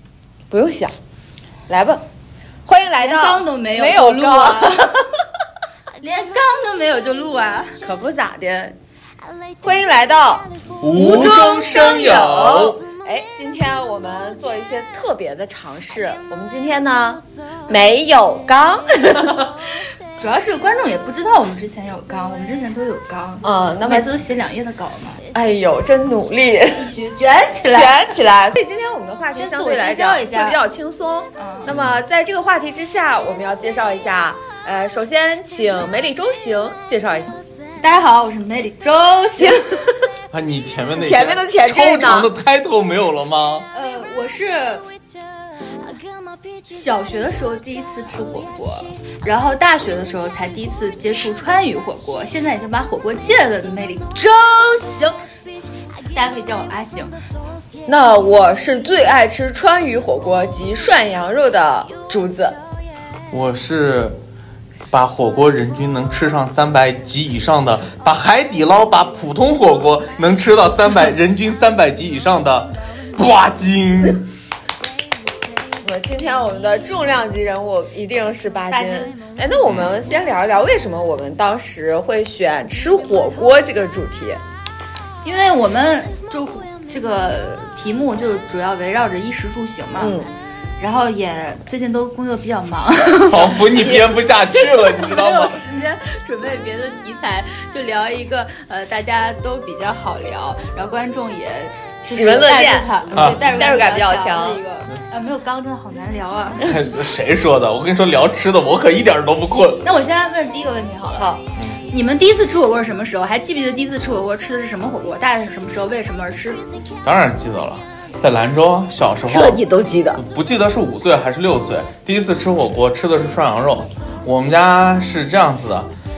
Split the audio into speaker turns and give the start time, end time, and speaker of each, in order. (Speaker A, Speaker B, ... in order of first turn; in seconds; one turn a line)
Speaker A: 0.5-0.9
Speaker A: 1.7-2.0
Speaker A: 2.7-4.9
Speaker B: 3.0-5.0
Speaker B: 6.0-7.7
Speaker A: 7.8-8.8
Speaker A: 9.6-10.5
Speaker C: 10.8-12.8
Speaker B: 10.9-12.7
Speaker A: 12.3-19.5
Speaker B: 20.2-25.2
Speaker A: 23.4-24.1
Speaker A: 25.3-26.9
Speaker B: 26.8-28.0
Speaker A: 27.7-37.4
Speaker B: 29.4-30.6
Speaker B: 31.4-31.7
Speaker C: 31.7-32.0
Speaker B: 37.8-39.9
Speaker A: 39.4-39.7
Speaker C: 40.3-43.7
Speaker A: 41.0-42.3
Speaker B: 43.7-44.9
Speaker B: 46.7-55.2
Speaker B: 56.1-57.1
Speaker A: 57.9-62.6
Speaker C: 63.3-64.2
Speaker C: 64.9-74.2
Speaker A: 75.8-84.4
Speaker B: 78.7-79.1
Speaker B: 85.2-90.2
Speaker A: 90.0-90.3
Speaker B: 90.8-106.7
Speaker C: 93.2-95.6
Speaker A: 93.7-94.1
Speaker A: 102.0-104.6
Speaker C: 103.1-103.4
Speaker C: 106.6-109.8
Speaker B: 109.8-111.3
Speaker A: 111.2-111.4
Speaker C: 111.6-111.8
Speaker B: 111.9-116.6
Speaker C: 117.0-125.9
Speaker A: 119.2-120.2